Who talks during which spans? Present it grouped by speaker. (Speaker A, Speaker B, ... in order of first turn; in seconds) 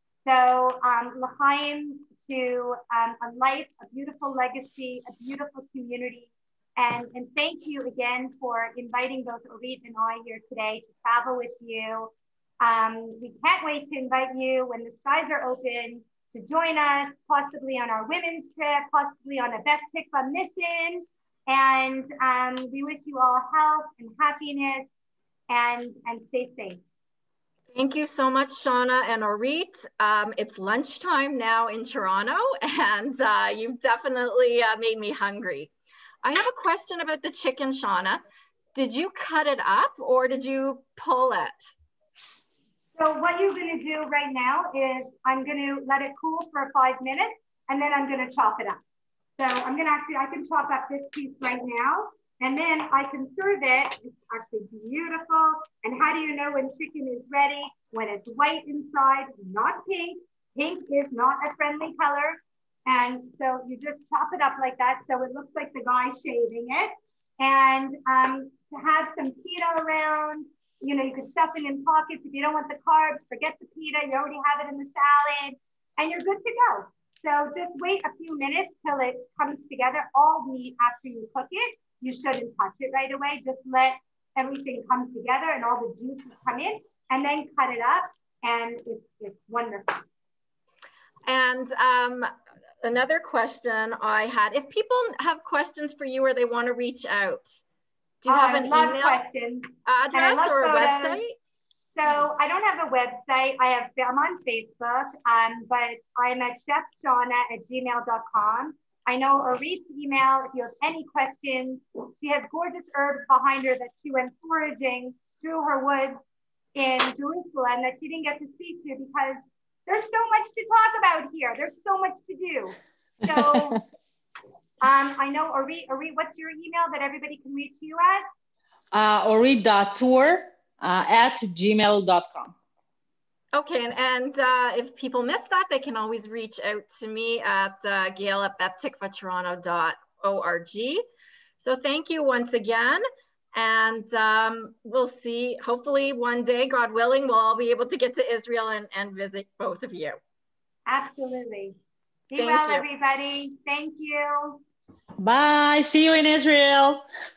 Speaker A: 0.2-12.1, 12.6-24.9, 25.5-26.8, 43.0-48.8, 49.4-90.0, 98.3-101.2, 101.9-116.2, 116.7-123.8, 124.8-128.2, 150.9-151.8, 152.3-154.6
Speaker B: 27.7-35.7, 36.2-38.2, 38.7-41.6, 91.2-97.6, 98.2-99.2, 99.8-101.3, 133.5-141.0, 141.6-143.0, 143.5-150.2, 152.3-152.8
Speaker C: 123.2-123.8, 128.9-132.5, 155.2-157.0